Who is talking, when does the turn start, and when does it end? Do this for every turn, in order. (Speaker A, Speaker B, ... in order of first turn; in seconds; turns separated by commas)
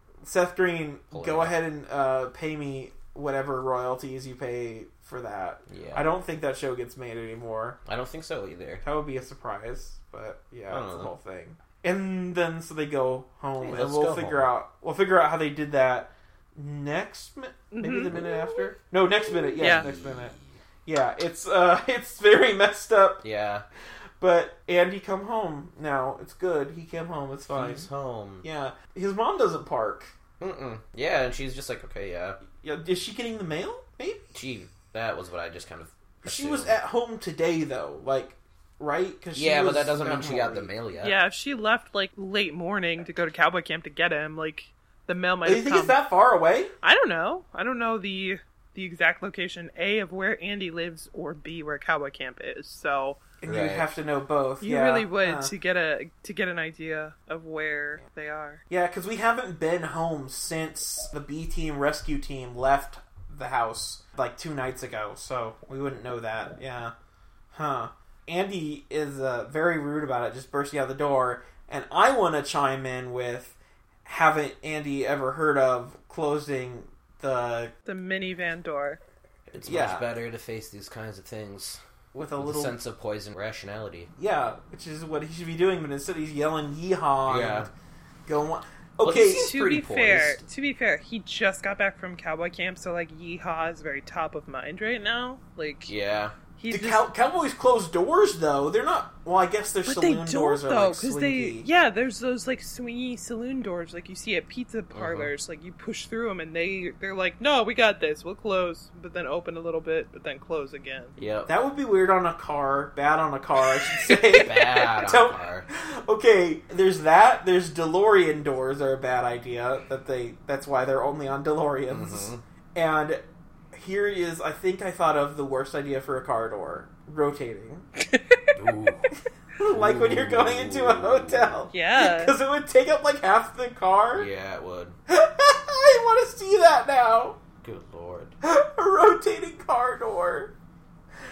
Speaker A: 0.2-7.8, Speaker B: 1.1-1.6, Speaker B: 5.7-6.1, Speaker B: 7.8-8.8, Speaker A: 8.8-23.2, Speaker B: 10.7-11.1, Speaker B: 13.6-14.5, Speaker C: 17.7-18.2, Speaker B: 19.6-20.6, Speaker C: 19.6-19.9, Speaker B: 23.2-23.6, Speaker A: 24.2-27.9, Speaker B: 27.5-28.4, Speaker A: 28.4-30.1, Speaker B: 30.4-32.4, Speaker A: 32.6-34.3, Speaker B: 34.3-36.8, Speaker A: 36.2-40.7, Speaker B: 39.3-41.1, Speaker C: 41.0-46.0, Speaker A: 45.4-46.7, Speaker C: 46.8-53.2, Speaker A: 53.4-55.5, Speaker B: 53.4-53.9, Speaker C: 54.6-58.6, Speaker A: 58.7-66.9, Speaker A: 67.5-77.7, Speaker C: 77.8-79.0, Speaker B: 79.5-81.8, Speaker A: 79.6-80.1, Speaker A: 82.1-82.8, Speaker B: 82.4-84.1, Speaker A: 84.2-87.7, Speaker B: 87.2-87.7, Speaker A: 88.3-89.9, Speaker B: 89.0-90.4, Speaker C: 89.3-95.9, Speaker B: 95.9-96.3, Speaker C: 96.5-97.1, Speaker A: 96.7-101.7, Speaker C: 99.8-111.2, Speaker B: 104.9-105.3, Speaker B: 111.2-111.5, Speaker A: 111.5-123.2, Speaker B: 114.1-115.7, Speaker B: 121.9-122.4, Speaker A: 123.7-127.8, Speaker B: 128.5-129.1, Speaker A: 129.6-134.3, Speaker B: 129.6-131.6, Speaker C: 131.7-132.4, Speaker B: 134.1-134.9, Speaker A: 135.1-137.4, Speaker B: 137.6-138.3, Speaker A: 138.4-140.5